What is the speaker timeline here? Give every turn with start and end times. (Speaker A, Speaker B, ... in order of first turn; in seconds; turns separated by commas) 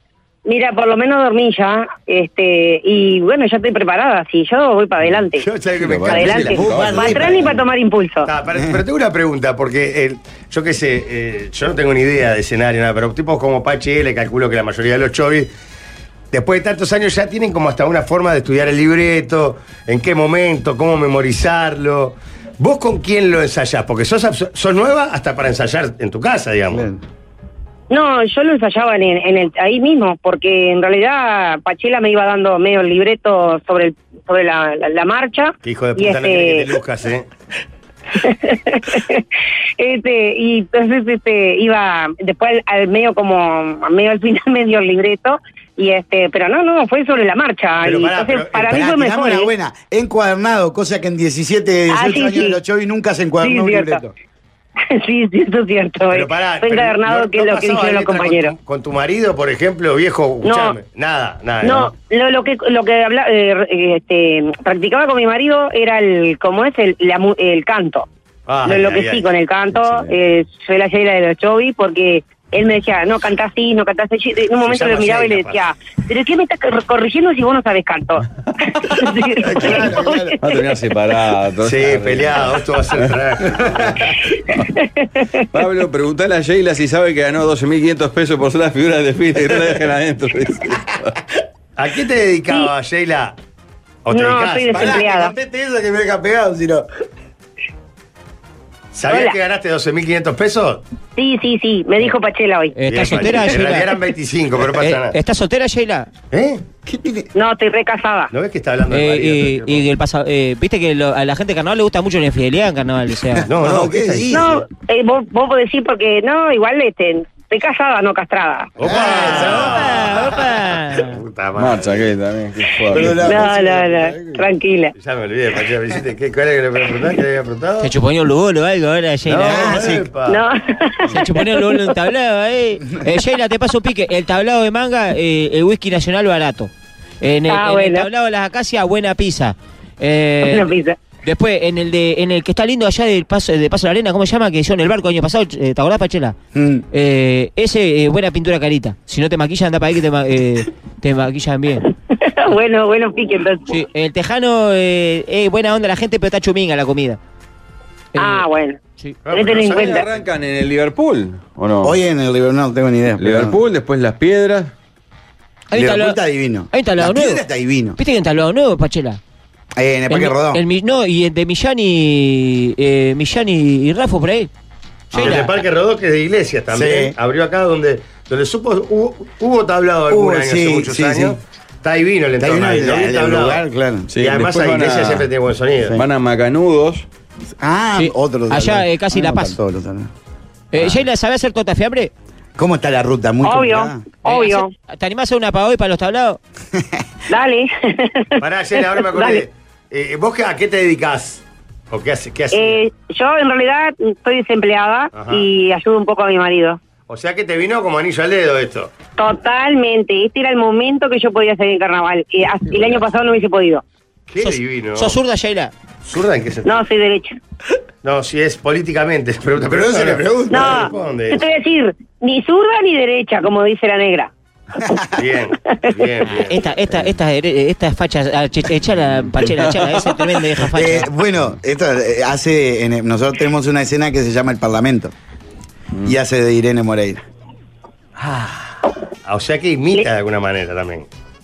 Speaker A: 0.5-5.5, Speaker B: 5.4-6.6, Speaker C: 5.8-7.6, Speaker A: 6.1-8.3, Speaker D: 6.2-7.5, Speaker B: 8.3-15.5, Speaker B: 16.3-26.9, Speaker D: 26.7-27.0, Speaker A: 27.9-36.7, Speaker B: 35.6-37.3, Speaker A: 38.2-39.2, Speaker A: 39.8-49.5, Speaker B: 47.8-48.8, Speaker D: 48.7-54.1, Speaker A: 51.9-52.6, Speaker A: 53.4-54.0, Speaker A: 54.9-58.5, Speaker B: 56.1-61.9, Speaker A: 60.4-60.8, Speaker A: 61.6-68.1, Speaker B: 68.5-69.2, Speaker A: 68.7-80.4, Speaker C: 69.8-70.1, Speaker B: 74.6-75.6, Speaker B: 79.4-80.0, Speaker D: 79.6-80.4, Speaker C: 80.4-83.1, Speaker B: 81.6-84.2, Speaker A: 84.8-85.2, Speaker C: 85.5-91.2, Speaker B: 91.8-93.4, Speaker B: 94.1-95.1, Speaker A: 94.1-95.3, Speaker D: 94.7-96.9, Speaker B: 98.9-100.8, Speaker A: 99.1-99.4, Speaker A: 101.2-102.8, Speaker E: 102.8-104.0, Speaker B: 102.9-105.2, Speaker E: 104.7-106.1, Speaker B: 106.3-106.6, Speaker D: 106.9-107.3, Speaker A: 107.3-108.3, Speaker B: 108.3-109.9, Speaker E: 108.9-113.5, Speaker B: 113.4-114.6, Speaker D: 113.6-114.5, Speaker A: 114.3-118.8, Speaker B: 118.8-122.1, Speaker D: 118.8-119.9, Speaker E: 119.2-121.2, Speaker C: 121.6-123.4, Speaker D: 122.9-124.5, Speaker A: 123.2-124.9, Speaker B: 125.0-127.9, Speaker E: 127.8-129.9, Speaker B: 129.2-130.4, Speaker D: 129.4-130.1, Speaker A: 130.3-131.9, Speaker E: 131.1-136.7, Speaker E: 137.2-140.7, Speaker A: 137.5-138.1, Speaker A: 140.4-141.0, Speaker E: 141.2-146.4, Speaker D: 146.6-146.8, Speaker E: 146.9-151.9, Speaker A: 152.1-153.8, Speaker E: 153.7-157.2, Speaker E: 158.1-158.5, Speaker A: 158.2-160.0, Speaker B: 159.3-160.1, Speaker C: 159.5-162.0, Speaker D: 161.8-163.6, Speaker C: 163.2-164.7, Speaker E: 165.7-166.2, Speaker D: 165.8-168.0, Speaker E: 166.7-167.4, Speaker E: 168.0-169.2, Speaker D: 169.8-170.6, Speaker E: 170.1-174.5, Speaker E: 175.1-175.6, Speaker B: 175.1-183.6, Speaker D: 175.2-175.4, Speaker D: 176.7-177.2, Speaker D: 180.1-181.4, Speaker D: 182.4-184.1, Speaker C: 184.1-185.3, Speaker B: 184.2-186.0, Speaker C: 185.9-187.1, Speaker D: 187.6-190.1, Speaker E: 188.0-189.6, Speaker E: 190.7-192.1, Speaker D: 192.6-194.0, Speaker A: 193.4-194.7, Speaker E: 194.2-196.4, Speaker D: 196.8-197.0, Speaker A: 197.3-199.4, Speaker B: 198.4-202.8, Speaker A: 202.5-206.8, Speaker B: 205.2-205.5, Speaker B: 207.1-208.9, Speaker A: 209.2-213.8, Speaker B: 214.3-215.2, Speaker E: 214.4-215.7, Speaker B: 216.1-216.7, Speaker A: 216.7-217.4, Speaker B: 218.0-221.4, Speaker D: 219.6-220.9, Speaker A: 220.5-224.3, Speaker D: 224.8-225.2, Speaker B: 225.2-226.6, Speaker E: 226.3-231.1, Speaker C: 229.4-230.4, Speaker D: 230.7-235.1, Speaker D: 236.1-237.2, Speaker B: 238.2-241.1